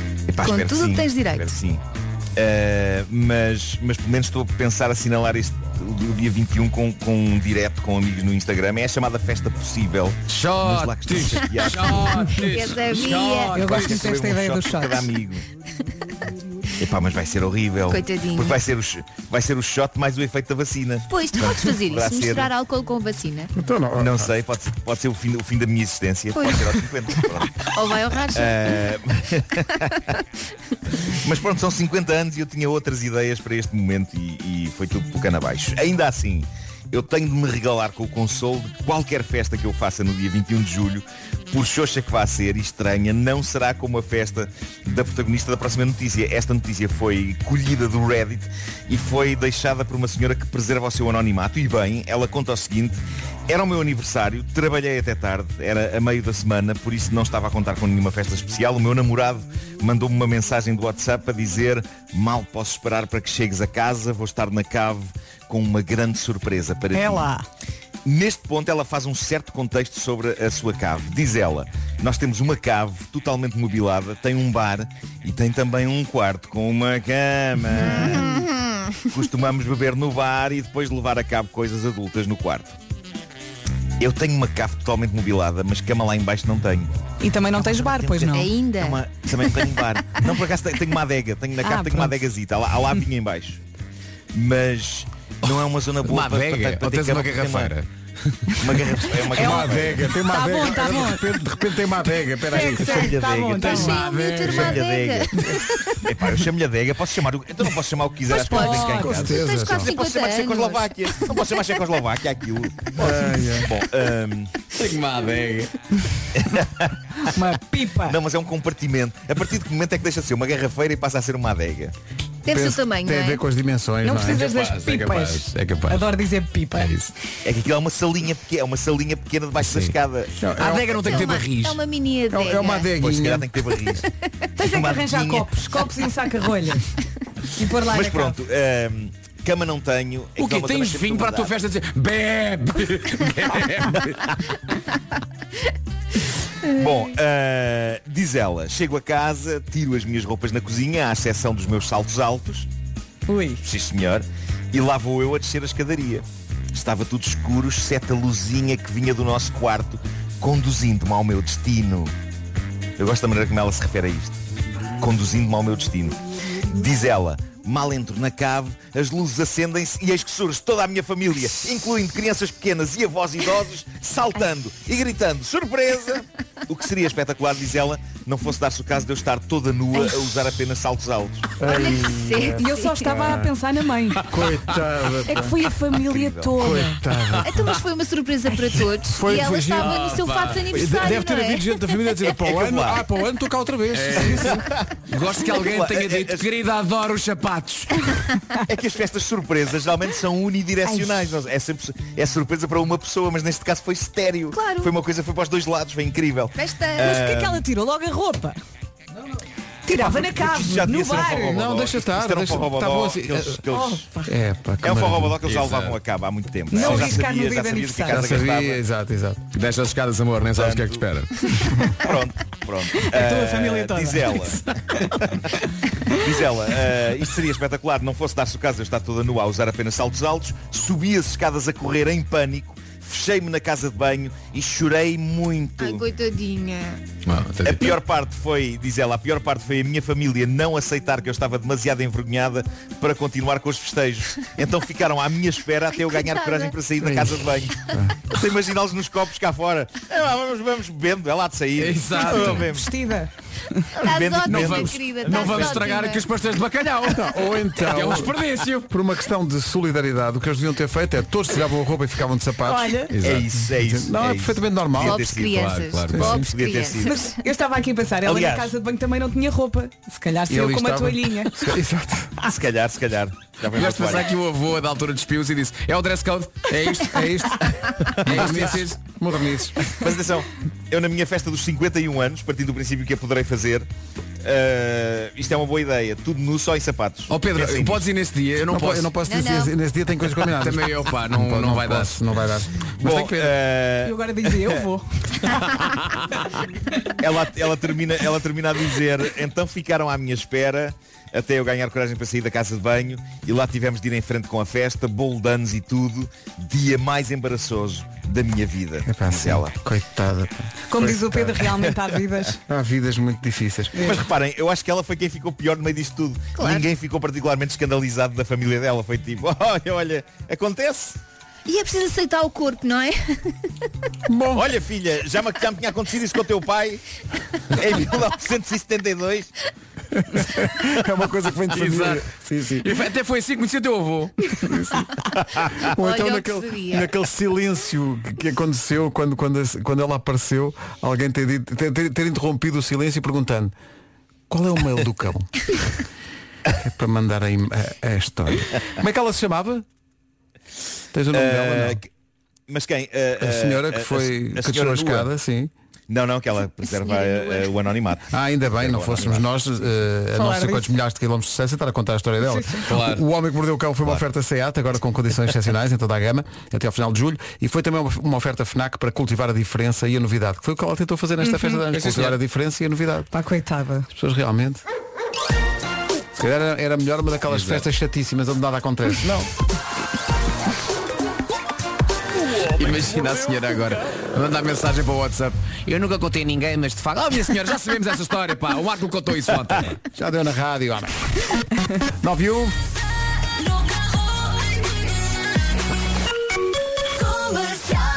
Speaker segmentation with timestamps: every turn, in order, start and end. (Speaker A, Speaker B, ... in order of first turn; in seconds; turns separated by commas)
Speaker A: 0.3-1.8, Speaker B: 0.4-1.6, Speaker A: 2.4-12.4, Speaker C: 10.3-13.9, Speaker B: 12.3-13.6, Speaker D: 13.5-15.0, Speaker A: 13.6-15.4, Speaker A: 16.8-22.5, Speaker B: 17.9-18.6, Speaker B: 21.1-23.5, Speaker E: 23.5-24.3, Speaker A: 24.0-27.6, Speaker B: 26.3-28.9, Speaker A: 28.3-30.1, Speaker A: 31.1-67.3, Speaker D: 66.9-67.4, Speaker A: 68.0-78.5, Speaker B: 77.8-79.0, Speaker A: 79.1-82.7, Speaker A: 84.0-93.6, Speaker D: 87.2-88.5, Speaker B: 88.3-89.0, Speaker D: 91.6-92.2, Speaker A: 94.3-97.7, Speaker C: 95.5-97.9, Speaker C: 98.5-98.8, Speaker A: 98.6-100.0, Speaker E: 99.3-103.2, Speaker D: 99.3-101.3, Speaker D: 102.5-104.0, Speaker A: 102.7-114.5, Speaker B: 103.6-106.0, Speaker E: 104.0-104.8, Speaker D: 108.3-109.2, Speaker B: 108.3-111.8, Speaker E: 108.9-109.9, Speaker E: 113.0-113.7, Speaker C: 114.7-115.7, Speaker A: 116.3-116.9, Speaker D: 117.2-118.2, Speaker A: 118.0-121.9, Speaker B: 122.4-123.4, Speaker E: 122.5-124.5, Speaker D: 124.0-126.9, Speaker C: 124.3-126.1, Speaker C: 126.7-127.1, Speaker A: 127.4-130.4, Speaker C: 129.6-130.0, Speaker E: 130.4-131.1, Speaker C: 130.6-131.8, Speaker B: 131.0-132.9, Speaker E: 132.3-133.5, Speaker A: 133.0-134.1, Speaker D: 134.6-136.8, Speaker A: 134.6-135.5, Speaker D: 137.6-138.4, Speaker A: 137.8-141.5, Speaker C: 140.4-144.2, Speaker A: 146.7-152.7, Speaker D: 153.3-153.6, Speaker A: 153.6-162.1, Speaker A: 163.0-164.4, Speaker A: 165.0-181.6, Speaker E: 181.6-183.5, Speaker B: 181.6-183.1, Speaker D: 182.6-184.2, Speaker E: 184.2-185.6, Speaker D: 185.3-187.0, Speaker A: 186.0-186.7, Speaker E: 186.6-187.6, Speaker B: 187.4-191.8, Speaker E: 189.1-190.1, Speaker C: 189.8-190.6, Speaker E: 190.7-194.6, Speaker A: 192.2-193.0, Speaker C: 193.9-198.0, Speaker A: 194.3-194.8, Speaker A: 195.3-196.5, Speaker A: 198.7-207.6, Speaker D: 200.8-201.1, Speaker D: 204.6-204.8, Speaker B: 206.6-207.2, Speaker D: 207.0-208.6, Speaker D: 209.8-211.7, Speaker A: 209.9-214.1, Speaker E: 211.4-213.6, Speaker D: 213.7-214.3, Speaker E: 214.2-215.3, Speaker A: 214.8-218.8, Speaker C: 215.4-216.0, Speaker D: 216.7-218.2, Speaker E: 218.1-219.4, Speaker C: 219.5-221.3, Speaker A: 220.6-221.1, Speaker A: 222.0-224.6, Speaker D: 223.0-224.6, Speaker A: 226.1-236.0, Speaker B: 235.8-237.0, Speaker C: 237.2-238.0, Speaker A: 237.6-247.8, Speaker B: 246.0-246.7, Speaker E: 247.0-248.2, Speaker A: 248.3-252.9, Speaker C: 251.8-252.7, Speaker D: 252.5-253.3, Speaker B: 254.0-256.2, Speaker A: 254.0-255.9, Speaker C: 254.4-258.9, Speaker E: 257.0-263.0, Speaker D: 262.6-263.1, Speaker C: 263.1-263.4, Speaker A: 263.2-267.1, Speaker E: 263.8-265.2, Speaker B: 265.0-267.4, Speaker C: 265.6-266.3, Speaker E: 266.1-266.4, Speaker D: 267.0-271.5, Speaker A: 268.2-268.7, Speaker E: 270.5-272.3, Speaker A: 272.4-274.3, Speaker C: 273.7-277.2, Speaker E: 277.0-279.8, Speaker C: 278.2-279.0, Speaker A: 280.0-283.9, Speaker A: 284.4-288.1, Speaker C: 287.3-289.1, Speaker E: 288.7-293.6, Speaker B: 289.2-289.7, Speaker C: 290.4-292.2, Speaker A: 293.0-294.8, Speaker D: 294.0-295.6, Speaker A: 297.2-309.7, Speaker E: 309.1-311.6, Speaker D: 310.9-312.6, Speaker E: 312.7-314.0, Speaker D: 313.9-314.2, Speaker A: 314.0-321.2, Speaker B: 316.5-316.9, Speaker B: 321.6-323.7, Speaker E: 324.3-324.7, Speaker A: 324.5-327.0, Speaker A: 327.7-329.5, Speaker E: 330.3-332.9, Speaker C: 331.7-332.2, Speaker C: 332.8-334.3, Speaker E: 334.6-335.1, Speaker E: 335.6-343.7, Speaker B: 335.9-337.1, Speaker E: 344.5-345.5, Speaker E: 346.8-349.8, Speaker E: 351.1-352.0, Speaker A: 351.3-352.1, Speaker A: 352.7-355.3, Speaker E: 353.4-355.7, Speaker A: 356.1-359.5, Speaker B: 356.9-357.7, Speaker E: 358.3-373.3, Speaker D: 360.4-360.9, Speaker D: 362.4-362.9, Speaker C: 362.9-363.2, Speaker D: 371.5-371.8, Speaker C: 371.9-372.4, Speaker D: 373.3-374.1, Speaker E: 374.1-374.8, Speaker E: 376.4-379.5, Speaker C: 377.5-377.8, Speaker C: 382.5-389.9, Speaker E: 390.1-391.1, Speaker E: 392.2-392.7